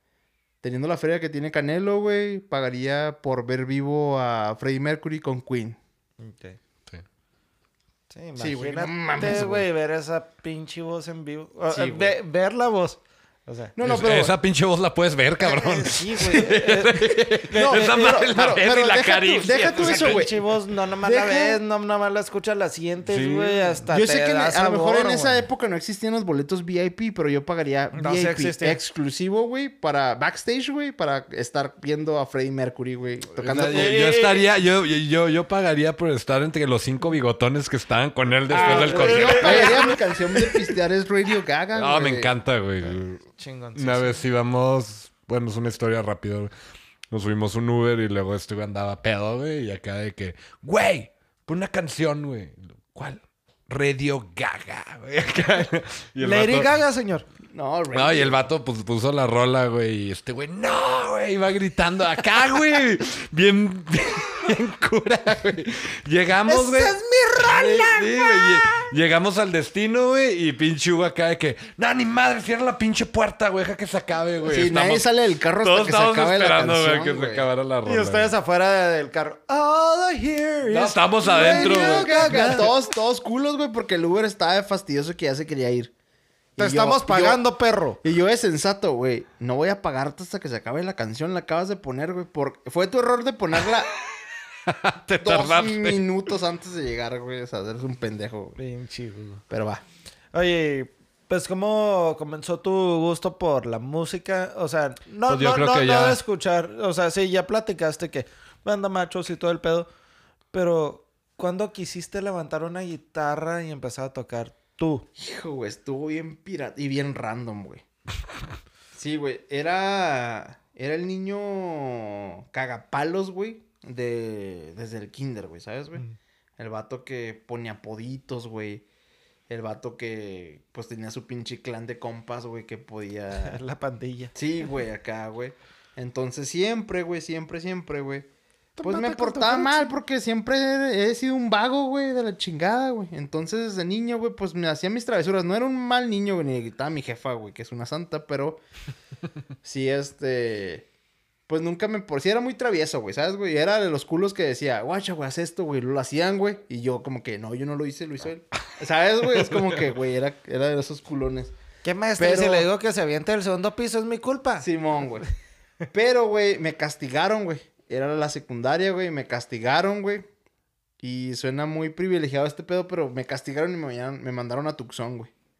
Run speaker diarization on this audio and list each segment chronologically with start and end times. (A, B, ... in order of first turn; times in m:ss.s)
0:00.6-0:05.8 A
0:06.2-0:06.6 B
0:08.1-0:13.7 B
0:08.4-0:09.7 A
0:11.7-0:12.1 A
0:13.7-0:14.3 A
0:13.8-0:20.3 C
0:15.4-0:18.0 B
0:17.5-0:21.6 A
0:19.6-0:25.4 B
0:23.0-0:23.8 C
0:23.9-0:34.0 A
0:27.9-0:28.8 B
0:33.4-0:40.0 C
0:33.5-0:34.4 B
0:38.5-0:40.0 B
0:38.5-0:42.3 A
0:41.7-0:46.5 C
0:43.3-0:44.2 B
0:47.1-0:56.7 C
0:56.2-0:57.2 B
0:57.5-0:58.4 A
0:57.9-1:15.1 C
1:06.5-1:08.4 B
1:14.5-1:17.5 A
1:15.6-1:18.3 C
1:17.8-1:22.7 B
1:20.7-1:22.7 C
1:21.2-1:25.9 A
1:26.6-1:27.4 A
1:26.6-1:28.0 B
1:28.0-1:33.9 A
1:34.5-1:36.1 C
1:35.2-1:38.6 A
1:38.6-1:39.4 B
1:39.5-1:39.8 A
1:40.3-1:49.9 B
1:45.3-1:46.2 C
1:50.5-1:55.1 B
1:55.2-1:57.8 A
1:58.9-2:06.0 A
2:06.6-2:08.8 A
2:09.5-2:13.6 A
2:13.4-2:14.3 B
2:14.3-2:18.3 A
2:18.8-2:19.9 B
2:18.8-2:28.6 A
2:29.6-2:30.8 A
2:31.5-2:41.5 A
2:41.8-2:44.7 B
2:42.2-2:42.7 A
2:44.6-2:45.3 A
2:45.9-2:50.2 A
2:51.0-2:55.3 A